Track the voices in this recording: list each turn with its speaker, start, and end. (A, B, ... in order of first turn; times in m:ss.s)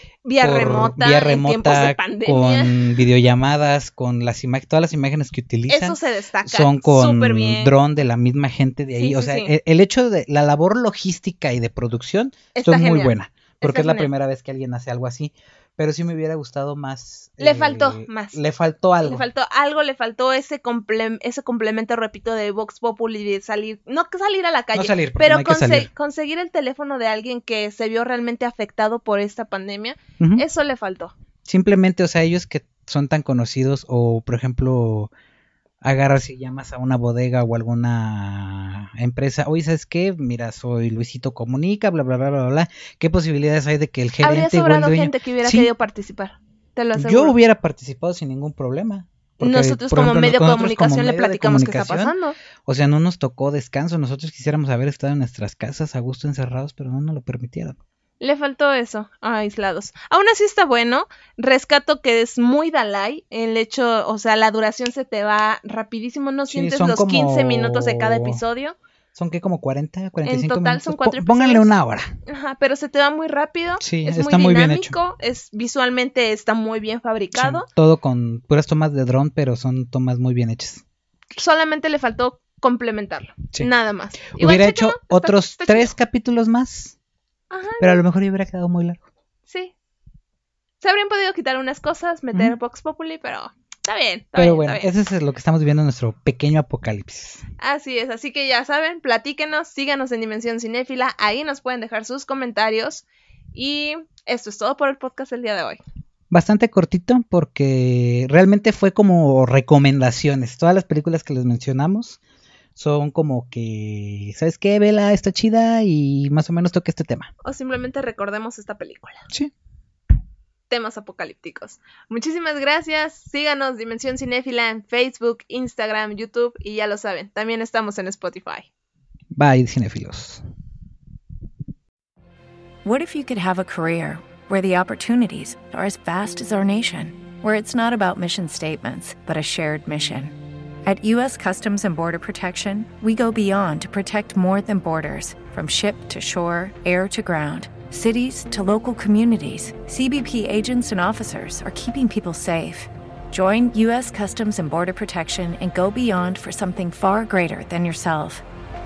0:00.2-0:02.8 A
0:00.4-0:19.2 B
0:05.7-0:07.7 A
0:08.9-0:09.5 A
0:12.5-0:14.1 A
0:17.4-0:18.4 A
0:19.0-0:31.1 A
0:24.7-0:25.9 B
0:30.2-0:30.4 B
0:31.4-0:35.1 B
0:35.8-0:45.7 B
0:44.2-0:47.4 A
0:46.9-0:52.1 B
0:49.4-0:52.4 A
0:52.6-0:57.8 B
0:58.2-1:08.8 A
1:06.5-1:08.4 B
1:09.1-1:12.1 B
1:10.2-1:11.7 A
1:12.2-1:17.7 A
1:13.8-1:14.9 B
1:17.3-1:20.8 B
1:21.4-1:25.9 A
1:24.3-1:27.0 B
1:27.5-1:28.0 A
1:27.8-1:29.0 B
1:29.5-1:29.7 A
1:30.8-1:34.9 A
1:34.4-1:37.4 B
1:37.6-1:45.8 A
1:46.3-1:52.2 B
1:52.8-1:57.3 B
1:57.4-1:59.3 A
2:00.7-2:08.7 A
2:09.3-2:10.4 B
2:12.8-2:38.4 C